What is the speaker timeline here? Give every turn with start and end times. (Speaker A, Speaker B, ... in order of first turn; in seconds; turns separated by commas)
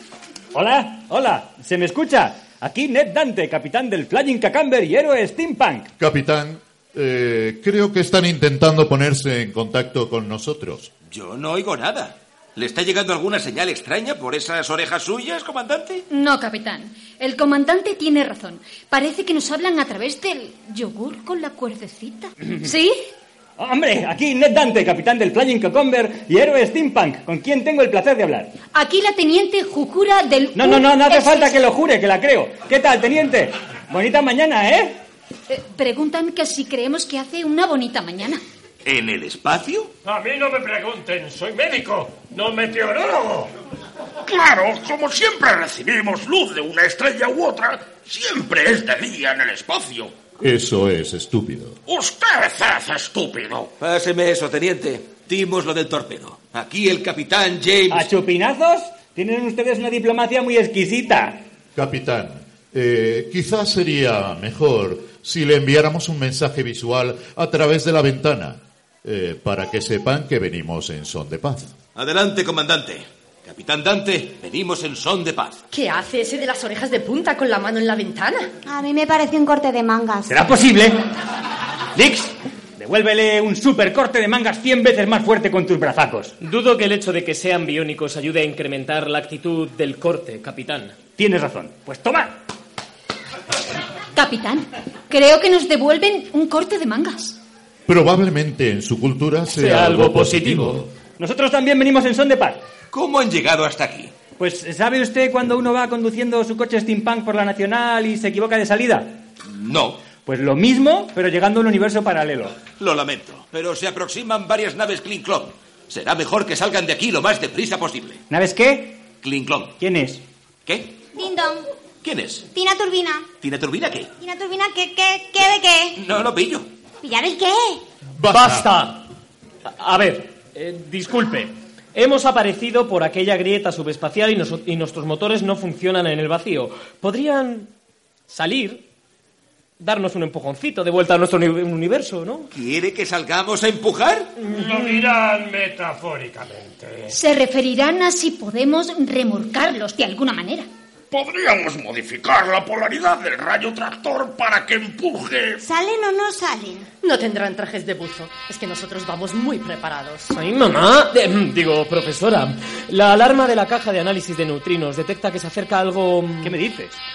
Speaker A: 0.5-5.9, Speaker B: 6.0-10.9, Speaker C: 11.1-16.1, Speaker D: 16.1-23.1, Speaker A: 23.6-28.5, Speaker D: 28.7-31.6, Speaker A: 30.6-35.0, Speaker D: 35.5-38.4, Speaker C: 38.9-39.9, Speaker E: 40.0-43.5, Speaker F: 44.3-50.1, Speaker B: 50.4-51.8, Speaker F: 51.9-53.7, Speaker C: 53.8-58.1, Speaker A: 57.9-61.4, Speaker B: 61.8-71.7, Speaker C: 72.0-75.6, Speaker G: 75.7-78.5, Speaker H: 78.7-80.4, Speaker A: 80.3-81.0, Speaker A: 82.0-86.3, Speaker I: 86.4-91.0, Speaker A: 91.2-92.4, Speaker D: 94.1-97.4, Speaker B: 97.9-100.9, Speaker I: 99.5-100.8, Speaker A: 101.2-102.6, Speaker C: 102.9-104.2, Speaker A: 104.4-109.2, Speaker C: 109.5-110.0, Speaker A: 110.2-112.6, Speaker C: 112.8-118.2, Speaker A: 118.3-119.1, Speaker C: 119.2-119.8, Speaker A: 119.8-120.2, Speaker C: 120.7-121.0, Speaker H: 121.1-121.7, Speaker C: 122.0-122.5, Speaker H: 122.5-123.3, Speaker C: 123.4-124.1, Speaker H: 124.2-126.0, Speaker C: 126.0-126.7, Speaker H: 127.0-127.8, Speaker B: 128.2-128.7, Speaker I: 128.3-129.1, Speaker I: 129.7-137.7, Speaker I: 138.3-138.8, Speaker I: 139.8-142.5, Speaker C: 142.5-144.3, Speaker I: 144.4-145.1, Speaker E: 144.4-147.2, Speaker D: 147.1-150.7, Speaker F: 151.1-155.6, Speaker H: 155.6-156.9, Speaker G: 157.0-160.3, Speaker I: 160.3-166.6, Speaker A: 166.4-167.0